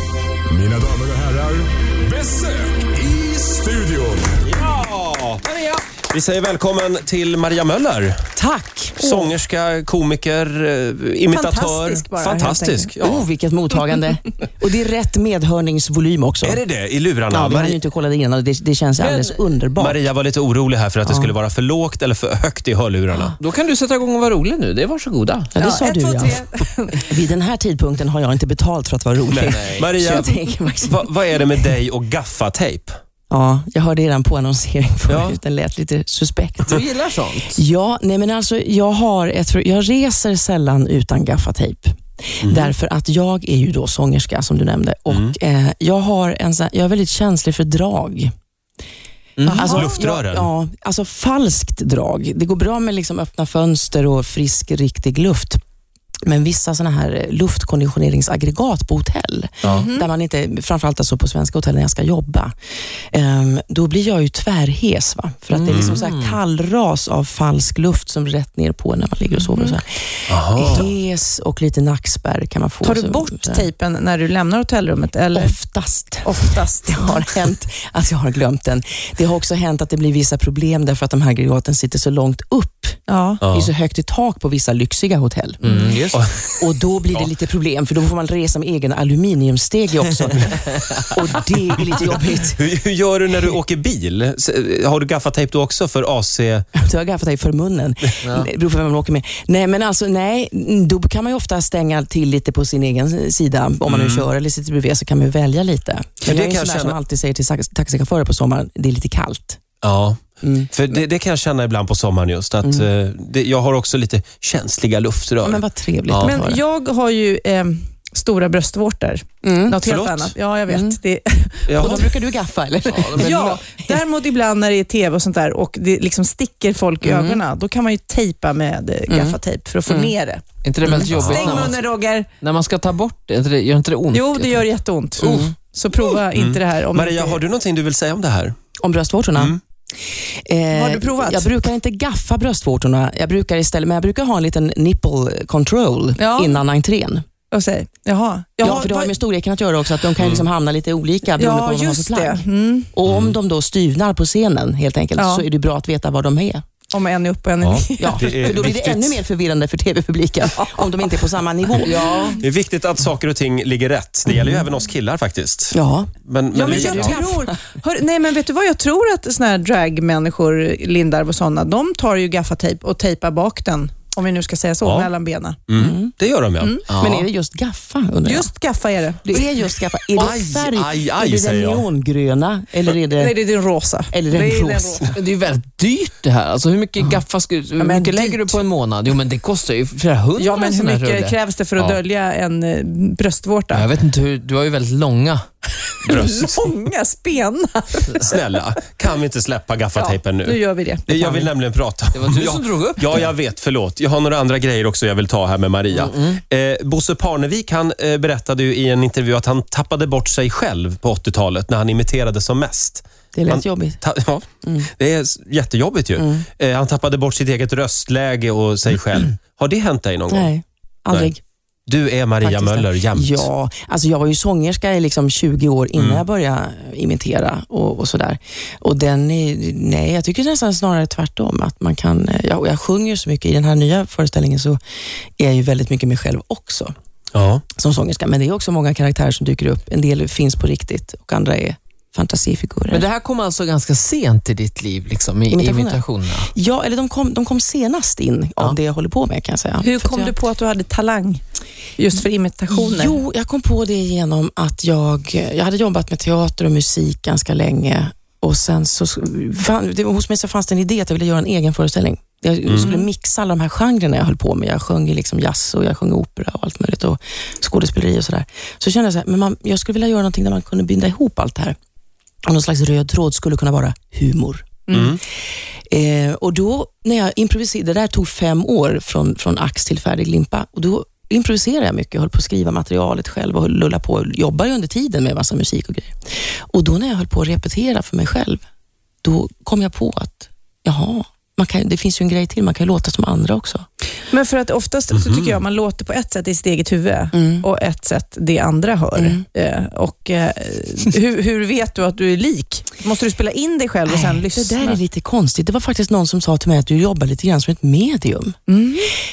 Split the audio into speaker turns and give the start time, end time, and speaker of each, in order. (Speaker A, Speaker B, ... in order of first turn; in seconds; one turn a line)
Speaker A: 0.5-4.3
Speaker B: 4.4-5.5
Speaker B: 6.1-8.3
Speaker C: 8.4-9.2
Speaker B: 9.0-13.3
Speaker D: 11.3-12.9
Speaker C: 13.0-16.6
Speaker B: 16.4-17.8
Speaker C: 17.3-20.0
Speaker E: 19.0-19.4
Speaker B: 19.8-23.4
Speaker C: 21.1-21.3
Speaker E: 23.4-25.5
Speaker C: 25.6-26.4
Speaker D: 25.6-27.2
Speaker C: 27.1-31.1
Speaker B: 29.3-33.0
Speaker E: 29.5-29.8
Speaker C: 33.3-36.8
Speaker B: 35.1-35.4
Speaker E: 36.7-37.6
Speaker C: 37.5-48.3
Speaker B: 42.4-42.8
Speaker B: 45.1-45.3
Speaker D: 49.5-50.0
Speaker C: 49.5-55.6
Speaker B: 49.5-50.5
Speaker C: 56.3-62.5
Speaker B: 59.6-59.9
Speaker D: 59.7-60.1
Speaker C: 63.1-73.7
Speaker E: 65.5-66.4
Speaker B: 65.7-66.0
Speaker D: 69.5-69.8
Speaker B: 70.3-70.9
Speaker D: 72.8-75.6
Speaker C: 75.3-85.7
Speaker D: 76.2-77.3
Speaker D: 83.1-83.4
Speaker B: 83.4-83.7
Speaker E: 85.6-86.7
Speaker D: 85.7-86.0
Speaker C: 86.6-92.6
Speaker B: 92.0-96.7
Speaker C: 96.8-109.6
Speaker E: 98.2-98.5
Speaker B: 103.9-104.3
Speaker B: 106.2-107.0
Speaker B: 109.8-115.6
Speaker C: 110.4-110.7
Speaker C: 112.6-112.9
Speaker C: 115.4-116.6
Speaker D: 116.2-122.2
Speaker C: 119.4-119.8
Speaker B: 119.8-120.3
Speaker C: 120.7-121.0
Speaker B: 121.7-122.1
Speaker C: 121.8-124.0
Speaker E: 122.9-123.6
Speaker D: 123.0-130.6
Speaker C: 127.0-127.4
Speaker C: 129.1-130.1
Speaker E: 130.6-131.8
Speaker C: 130.8-131.1
Speaker B: 131.1-131.7
Speaker D: 131.2-132.3
Speaker E: 132.4-134.7
Speaker D: 134.1-137.4
Speaker C: 135.2-135.6
Speaker B: 136.3-138.6
Speaker C: 138.8-139.6
Speaker C: 140.1-147.2
Speaker D: 140.7-141.6
Speaker D: 146.2-146.6
Speaker D: 147.5-149.1
Speaker C: 148.6-156.6
Speaker B: 150.2-150.4
Speaker D: 151.4-152.9
Speaker B: 153.1-153.4
Speaker D: 155.2-155.4
Speaker D: 156.9-158.6
Speaker B: 157.6-159.2
Speaker C: 158.0-162.1
Speaker E: 161.8-162.4
Speaker D: 161.9-162.4
Speaker B: 162.4-167.4
Speaker C: 164.3-164.6
Speaker C: 165.7-166.1
Speaker D: 166.5-175.6
Speaker C: 166.6-167.4
Speaker B: 174.8-175.1
Speaker B: 175.7-176.8
Speaker C: 175.7-176.1
Speaker D: 176.6-176.9
Speaker E: 176.9-177.3
Speaker C: 177.0-178.5
Speaker D: 178.2-179.5
Speaker C: 179.2-183.4
Speaker B: 180.2-181.9
Speaker D: 183.2-185.1
Speaker C: 184.1-185.1
Speaker E: 185.1-191.4
Speaker D: 187.8-188.6
Speaker D: 190.4-193.9
Speaker E: 193.7-195.4
Speaker B: 196.1-196.6
Speaker D: 196.1-198.4
Speaker B: 198.2-220.5
Speaker D: 200.0-201.5
Speaker E: 202.1-203.3
Speaker E: 205.9-206.4
Speaker C: 213.3-214.0
Speaker C: 214.6-214.9
Speaker C: 216.2-216.5
Speaker C: 220.3-221.4
Speaker B: 221.9-223.5
Speaker C: 222.4-234.8
Speaker B: 226.0-226.2
Speaker C: 235.4-236.9
Speaker B: 237.3-237.6
Speaker C: 237.8-243.1
Speaker E: 242.9-246.5
Speaker C: 245.5-250.3
Speaker D: 249.8-251.4
Speaker D: 252.0-253.2
Speaker C: 252.7-271.8
Speaker B: 262.7-263.0
Speaker C: 272.5-275.1
Speaker B: 274.9-275.2
Speaker C: 275.9-286.1
Speaker C: 286.7-288.6
Speaker C: 289.2-293.9
Speaker D: 294.3-305.0
Speaker B: 295.1-295.6
Speaker C: 297.3-297.7
Speaker C: 299.2-299.4
Speaker C: 304.1-308.6
Speaker D: 308.7-309.1